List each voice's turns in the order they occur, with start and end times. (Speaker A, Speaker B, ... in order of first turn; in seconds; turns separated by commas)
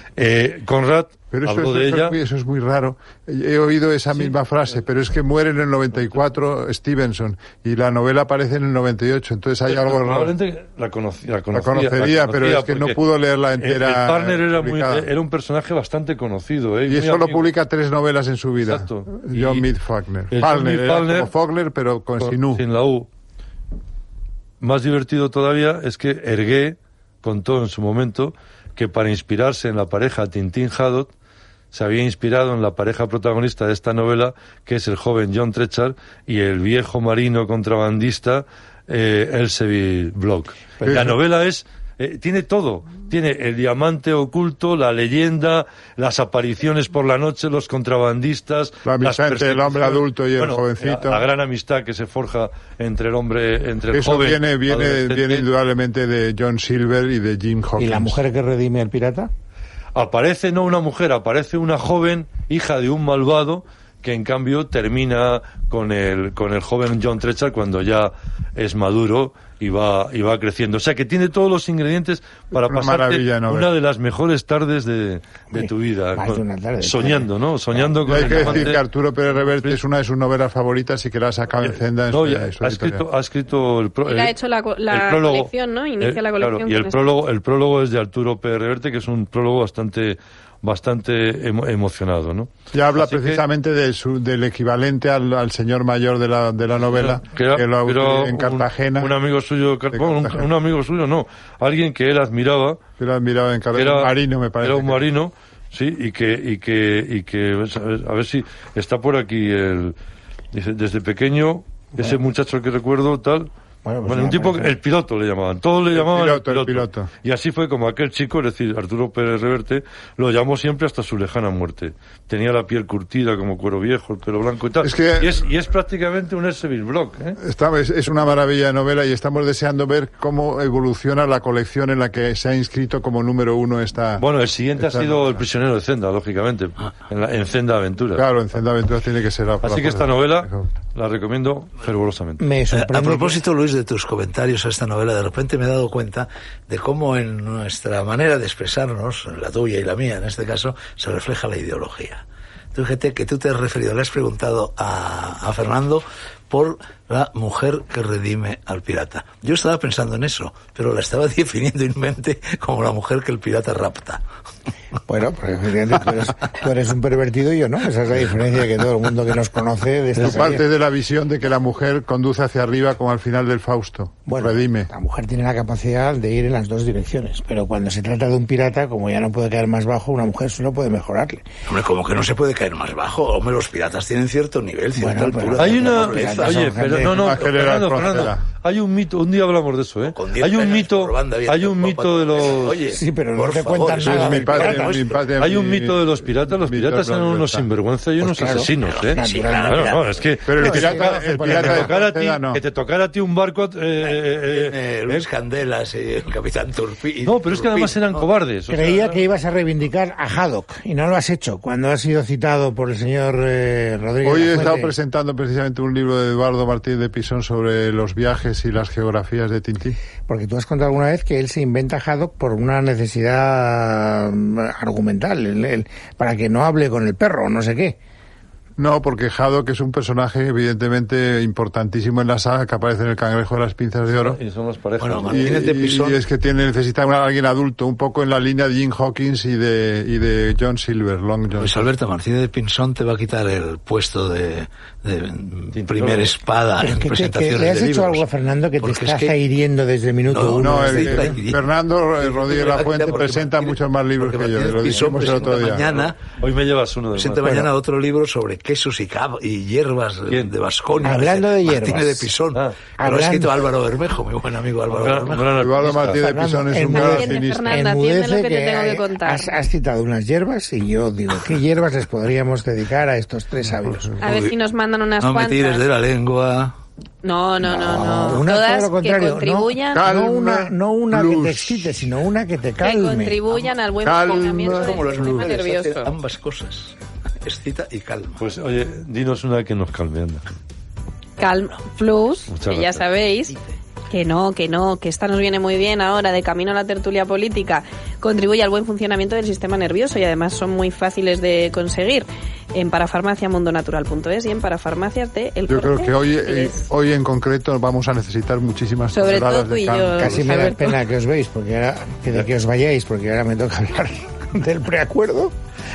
Speaker A: 0.2-2.1, Speaker B: 1.3-10.3, Speaker A: 9.7-13.0, Speaker B: 11.5-15.1, Speaker A: 13.6-17.5, Speaker B: 16.9-22.6, Speaker A: 18.6-19.7, Speaker A: 20.3-21.3, Speaker A: 22.2-23.1, Speaker A: 24.6-31.1, Speaker A: 31.7-55.5, Speaker B: 40.8-41.1, Speaker B: 48.8-51.2, Speaker B: 53.9-58.2, Speaker C: 57.8-59.3, Speaker A: 59.9-78.8, Speaker B: 72.5-73.7, Speaker C: 75.5-78.4, Speaker B: 78.0-83.0, Speaker A: 82.1-84.3, Speaker D: 84.0-87.0, Speaker A: 84.9-93.4, Speaker B: 92.7-99.2, Speaker A: 97.0-102.8, Speaker B: 99.9-100.5, Speaker B: 103.0-105.0, Speaker A: 103.8-104.1, Speaker A: 104.6-110.0, Speaker A: 110.5-113.5, Speaker C: 113.8-114.7, Speaker A: 114.0-127.4, Speaker B: 115.9-117.1, Speaker B: 124.8-125.4, Speaker B: 127.4-135.4, Speaker A: 134.2-138.2, Speaker B: 138.1-140.7, Speaker A: 139.6-142.4, Speaker C: 142.4-143.4, Speaker E: 142.7-164.2, Speaker C: 165.1-170.6, Speaker A: 170.2-170.4, Speaker B: 170.2-174.9, Speaker C: 174.2-181.4, Speaker E: 181.7-187.6, Speaker C: 185.0-187.2, Speaker A: 185.6-192.8, Speaker B: 187.1-188.4, Speaker E: 190.1-195.2, Speaker C: 192.9-195.0, Speaker B: 194.0-197.7, Speaker A: 195.4-205.2, Speaker C: 198.2-200.0, Speaker E: 198.8-200.3, Speaker B: 200.4-202.6, Speaker C: 200.6-201.9, Speaker E: 204.0-208.3, Speaker A: 207.2-209.2, Speaker C: 208.7-214.9, Speaker B: 214.2-220.0, Speaker C: 220.3-228.0, Speaker B: 228.8-234.4, Speaker A: 234.1-235.6, Speaker E: 235.0-236.2, Speaker B: 235.2-241.7, Speaker E: 241.6-248.2, Speaker A: 245.7-246.3, Speaker C: 246.8-251.4, Speaker E: 248.8-249.3, Speaker E: 250.3-251.6, Speaker B: 250.5-255.9, Speaker E: 252.2-256.3, Speaker A: 256.4-257.4, Speaker E: 257.1-265.6, Speaker C: 257.4-257.7, Speaker C: 261.0-262.3, Speaker C: 263.0-263.6, Speaker A: 264.9-266.2, Speaker B: 265.5-267.7, Speaker C: 266.2-274.2, Speaker D: 266.8-269.5, Speaker B: 273.7-274.1, Speaker D: 274.2-275.8, Speaker E: 274.2-274.5, Speaker E: 275.2-276.7, Speaker D: 277.2-280.0, Speaker C: 277.6-283.4, Speaker B: 279.9-282.1, Speaker D: 282.8-286.1, Speaker B: 284.0-285.5, Speaker E: 284.2-288.4, Speaker A: 288.4-290.5, Speaker D: 291.4-293.6, Speaker A: 292.5-293.1, Speaker E: 293.5-293.7, Speaker D: 294.1-306.9, Speaker B: 305.7-310.5, Speaker D: 309.1-311.0, Speaker C: 310.1-315.5